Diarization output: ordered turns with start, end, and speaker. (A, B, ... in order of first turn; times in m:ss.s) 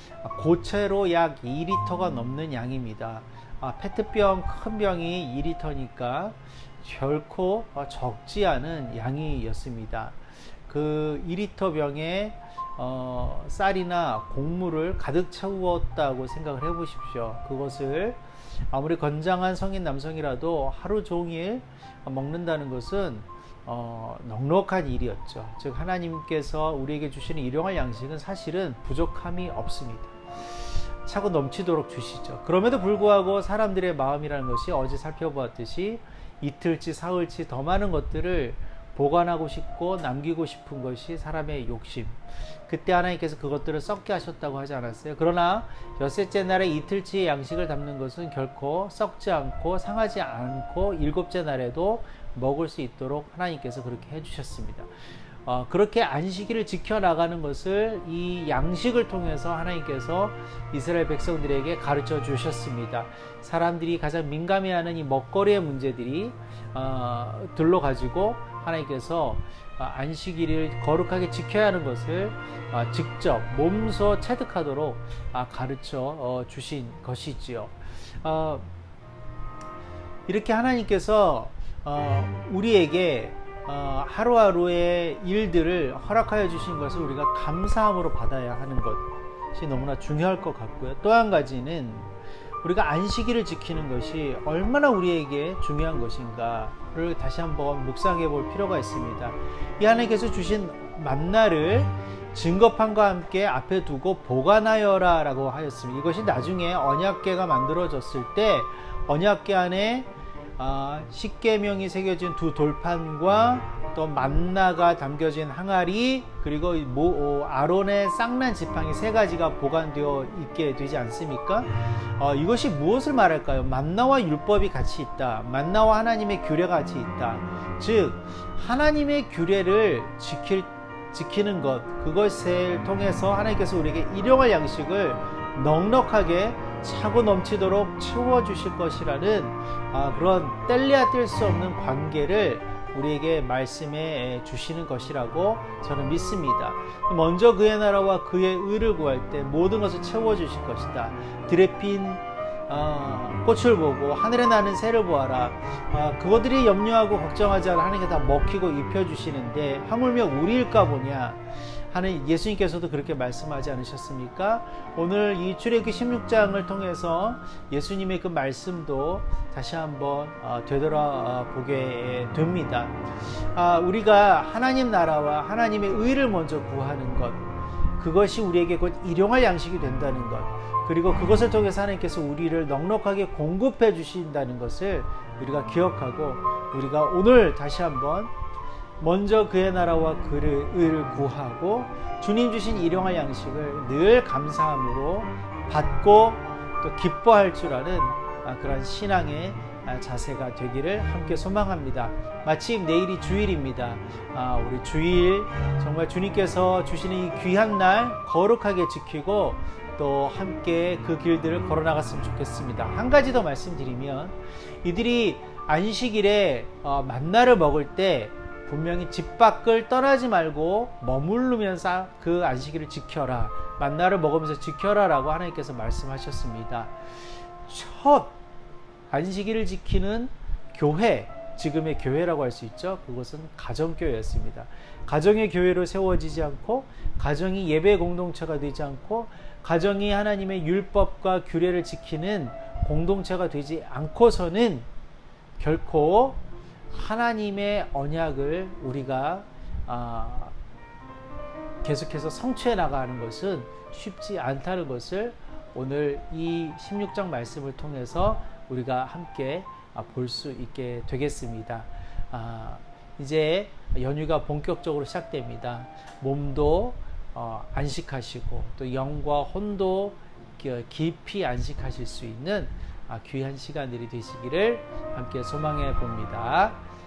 0:00.2-0:54.9 A
0:55.4-1:18.7 A
1:20.3-3:08.3 A
3:09.0-3:47.0 A
3:47.6-3:48.4 A
3:49.1-4:04.9 A
4:05.6-4:10.5 A
4:11.8-4:36.8 A